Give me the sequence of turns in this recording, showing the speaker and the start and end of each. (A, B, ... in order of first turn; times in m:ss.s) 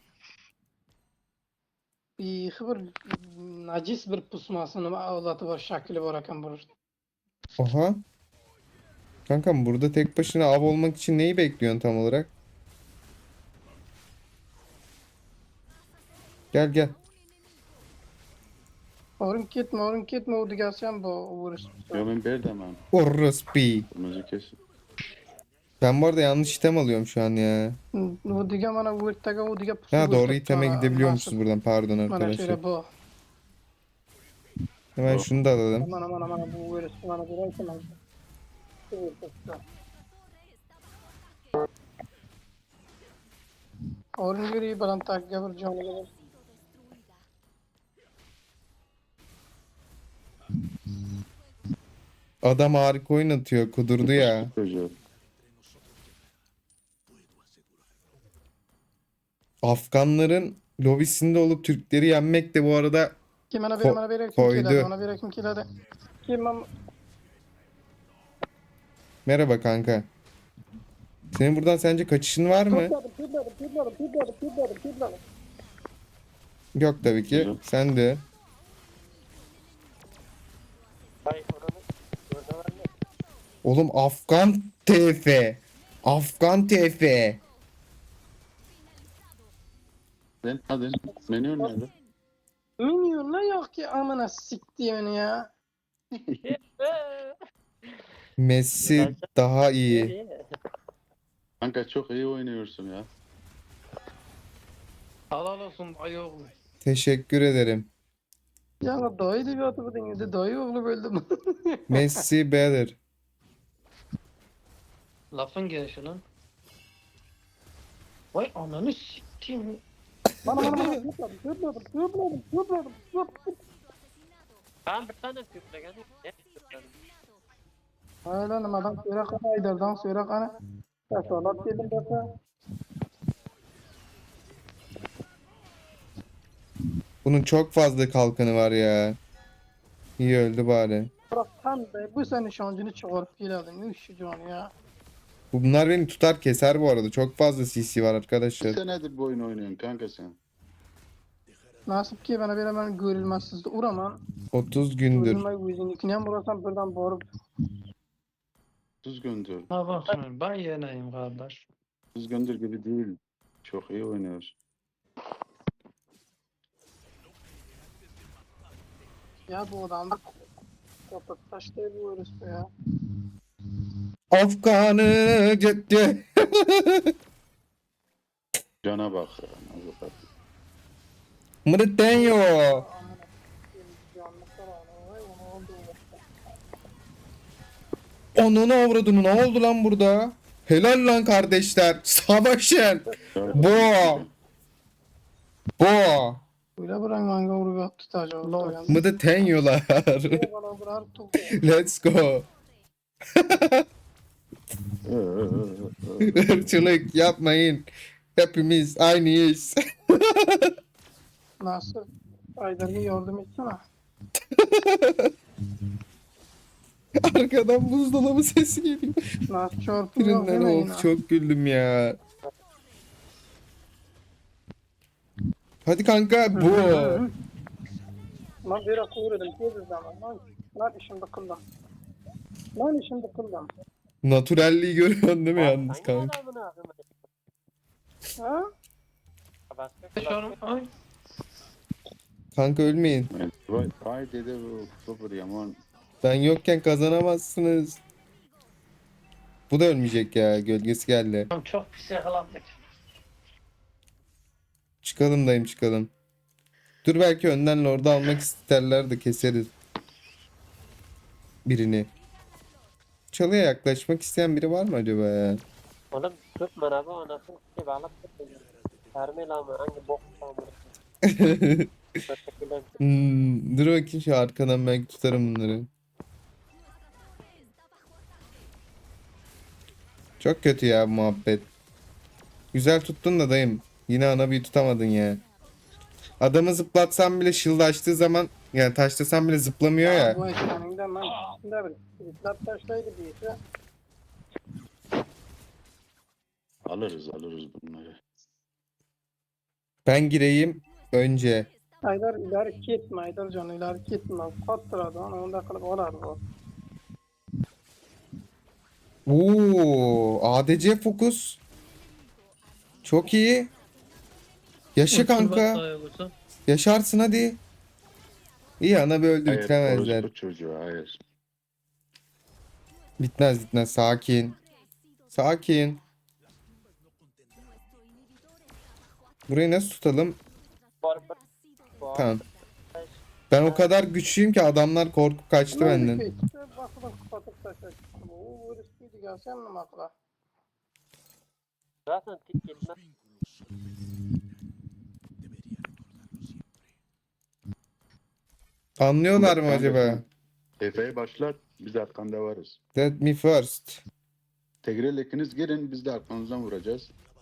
0:02.2-0:06.7 A
0:07.6-0:08.0 B
0:09.3-0:12.3 B
0:16.5-0:16.9 B
0:19.2-0:22.0 A
0:21.9-0:22.8 C
0:22.9-0:23.9 B
0:23.9-0:24.6 C
0:25.8-0:27.8 B
0:28.0-0:31.4 A
0:29.9-0:32.6 B
0:32.1-0:32.8 A
0:35.0-0:35.9 B
0:35.0-0:35.3 C
0:35.8-0:37.9 A
0:38.9-0:39.6 A
0:44.2-0:46.1 A
0:52.4-0:54.5 B
0:54.0-0:55.0 C
0:59.6-1:03.2 B
1:03.5-1:05.6 A
1:03.8-1:04.9 B
1:06.2-1:06.6 A
1:09.2-1:10.1 B
1:11.3-1:12.9 B
1:12.7-1:15.2 A
1:16.7-1:18.2 B
1:17.3-1:17.6 C
1:21.2-1:22.9 D
1:23.6-1:27.4 B
1:30.4-1:31.9 C
1:32.8-1:35.5 A
1:36.1-1:36.4 C
1:36.4-1:37.4 D
1:38.4-1:40.1 B
1:38.8-1:39.2 D
1:39.9-1:40.5 D
1:41.6-1:43.1 C
1:45.3-1:46.5 E
1:46.8-1:47.9 B
1:48.8-1:52.0 A
1:51.9-1:53.0 B
1:55.3-1:56.2 E
1:58.3-1:59.8 E
2:00.4-2:03.5 A
2:00.5-2:00.9 B
2:04.9-2:06.9 D
2:08.3-2:10.5 A
2:11.1-2:12.2 A
2:17.2-2:19.2 B
2:20.2-2:21.1 B
2:21.3-2:24.7 A
2:25.5-2:28.8 B
2:28.6-2:30.4 C
2:31.9-2:34.2 A
2:34.5-2:35.4 B
2:35.1-2:37.2 A
2:39.0-2:39.7 C
2:39.7-2:41.7 E
2:42.1-2:44.5 C
2:49.5-2:50.2 A
2:51.1-2:52.6 A
2:54.3-2:57.1 B
2:58.8-3:00.2 C
3:01.6-3:02.8 B
3:02.1-3:06.2 A
3:08.3-3:14.2 B
3:13.3-3:14.3 C
3:15.8-3:16.4 B
3:16.8-3:19.0 A
3:18.4-3:19.0 E
3:18.9-3:20.4 B
3:20.3-3:21.6 A
3:21.5-3:22.5 B
3:23.3-3:23.8 B
3:25.0-3:26.8 C
3:26.2-3:30.7 B
3:31.6-3:32.0 A
3:32.6-3:33.8 A
3:34.4-3:35.3 B
3:37.2-3:39.2 B
3:39.5-3:41.1 A
3:40.2-3:42.2 B
3:45.8-3:47.2 B
3:46.5-3:47.3 A
3:48.6-3:51.6 A
3:52.8-3:53.7 A
3:54.2-3:56.3 B
3:55.6-3:57.1 D
3:58.4-3:58.6 A
3:59.7-4:00.6 D
4:00.2-4:00.9 E
4:02.5-4:03.3 B
4:03.3-4:05.8 C
4:06.2-4:08.0 B
4:09.7-4:11.5 B
4:11.5-4:12.8 E
4:15.0-4:16.1 B
4:17.0-4:19.7 B
4:21.6-4:22.1 B
4:23.3-4:25.6 B
4:26.1-4:30.9 D
4:31.2-4:31.9 B
4:32.3-4:32.9 D
4:33.0-4:35.9 B
4:40.4-4:41.7 B
4:42.7-4:45.4 B
4:46.4-4:50.4 B
4:50.0-4:53.6 A
4:56.8-4:58.2 C
5:00.0-5:01.7 B
5:02.0-5:06.4 A
5:09.3-5:11.6 B
5:13.0-5:13.7 B
5:15.0-5:15.8 B
5:15.1-5:16.3 E
5:16.7-5:17.6 B
5:18.8-5:20.3 B
5:19.4-5:21.2 C
5:23.2-5:24.6 B
5:25.3-5:26.0 B
5:29.5-5:30.4 B
5:31.0-5:31.4 D
5:32.0-5:32.4 D
5:32.1-5:32.4 B
5:32.9-5:33.9 D
5:33.5-5:36.2 B
5:35.7-5:40.1 A
5:42.1-5:43.0 D
5:49.0-5:50.2 B
5:49.4-5:50.2 C
5:50.8-5:52.8 C
5:52.9-5:54.0 B
5:54.8-5:57.1 C